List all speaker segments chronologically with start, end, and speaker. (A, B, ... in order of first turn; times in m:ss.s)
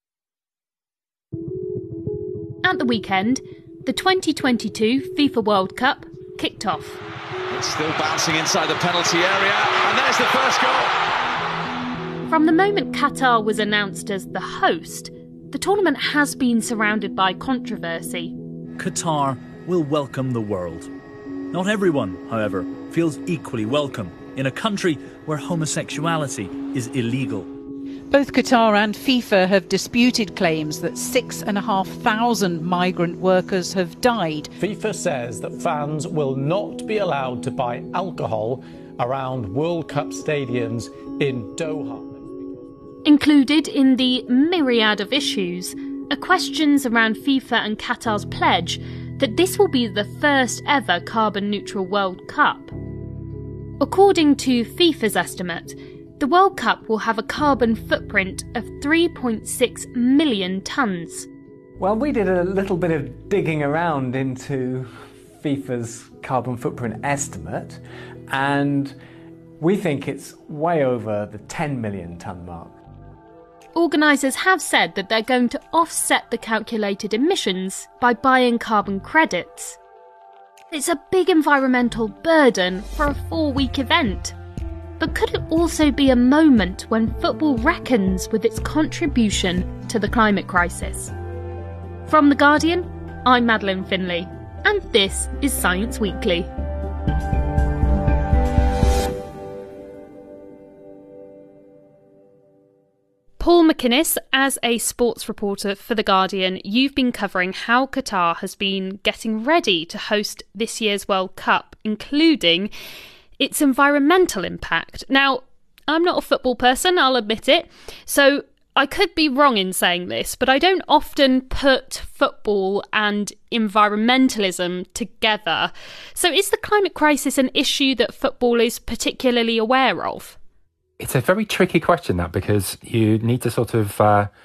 0:02.6-0:07.0 A
0:07.5-0:11.0 B
0:12.3-0:18.4 A
0:18.8-0:20.9 C
0:21.5-0:27.5 C
0:28.1-0:34.5 D
0:34.6-0:42.5 E
0:43.1-0:52.7 A
0:53.8-1:01.3 A
1:01.8-1:09.0 F
1:09.6-1:12.8 F
1:13.8-1:19.8 A
1:20.7-1:24.4 A
1:25.0-1:31.1 A
1:32.1-1:36.5 A
1:43.4-1:52.7 A
1:53.4-2:10.4 A
2:11.0-2:14.3 G